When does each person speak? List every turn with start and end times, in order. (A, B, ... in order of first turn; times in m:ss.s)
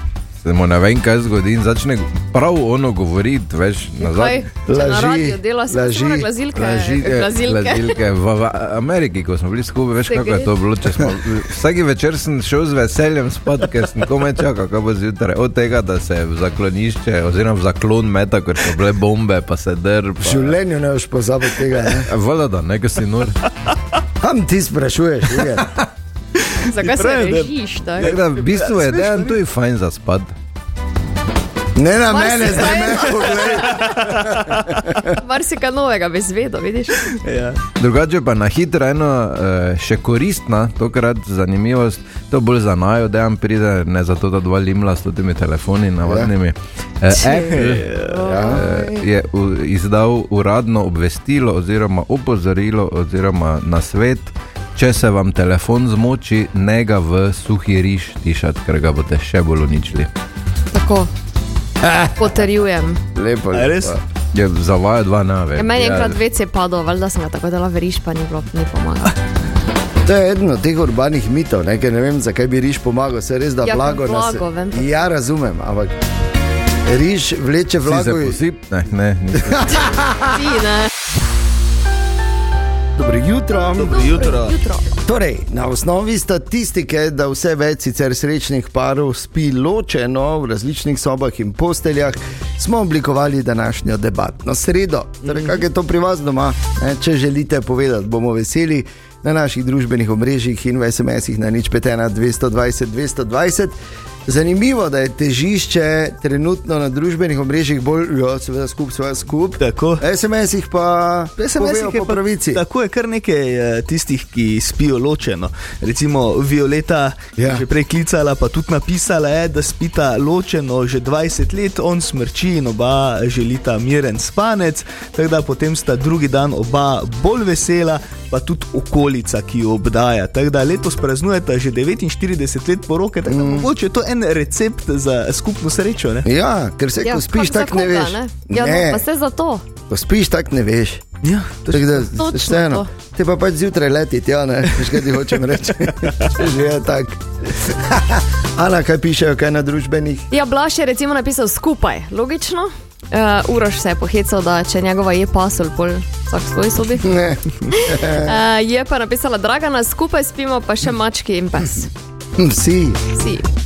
0:00.4-0:04.5 A
0:04.0-0:08.0 B
0:04.7-0:06.9 C
0:06.6-0:20.5 A
0:10.1-0:10.5 B
0:20.2-0:22.1 C
0:22.0-0:23.4 A
0:24.2-0:25.6 C
0:26.4-0:29.4 D
0:26.7-0:28.1 B
0:28.0-0:30.3 A
0:31.8-0:35.0 C
0:32.1-0:33.6 B
0:33.6-0:34.8 D
0:35.1-0:37.1 B
0:37.2-0:37.6 D
0:37.8-1:00.1 A
0:46.0-0:46.3 C
0:47.1-0:47.5 B
0:47.4-0:48.5 D
0:48.2-0:48.7 B
0:48.2-0:48.6 C
1:00.7-1:01.1 B
1:01.8-1:02.3 C
1:02.2-1:03.0 B
1:03.1-1:04.0 C
1:03.5-1:04.0 D
1:04.3-1:06.2 A
1:05.6-1:09.1 B
1:10.0-1:16.0 C
1:13.6-1:14.9 B
1:16.8-1:18.4 C
1:17.8-1:20.1 A
1:19.5-1:20.4 C
1:20.2-1:20.9 B
1:23.0-1:24.2 C
1:23.7-1:24.6 D
1:23.9-1:24.8 B
1:25.0-1:52.6 C
1:35.3-1:35.5 D
1:49.6-1:50.0 D
1:51.4-2:16.2 D
1:57.4-1:57.6 C
2:13.3-2:13.7 C
2:16.2-2:19.0 C
2:17.0-2:19.6 B
2:19.9-2:21.0 C
2:21.2-2:22.0 D
2:21.7-2:30.3 C
2:22.1-2:22.9 B
2:30.3-2:37.1 B
2:37.0-2:38.4 C
2:37.7-2:41.9 B
2:42.4-2:43.0 C
2:43.1-2:43.4 B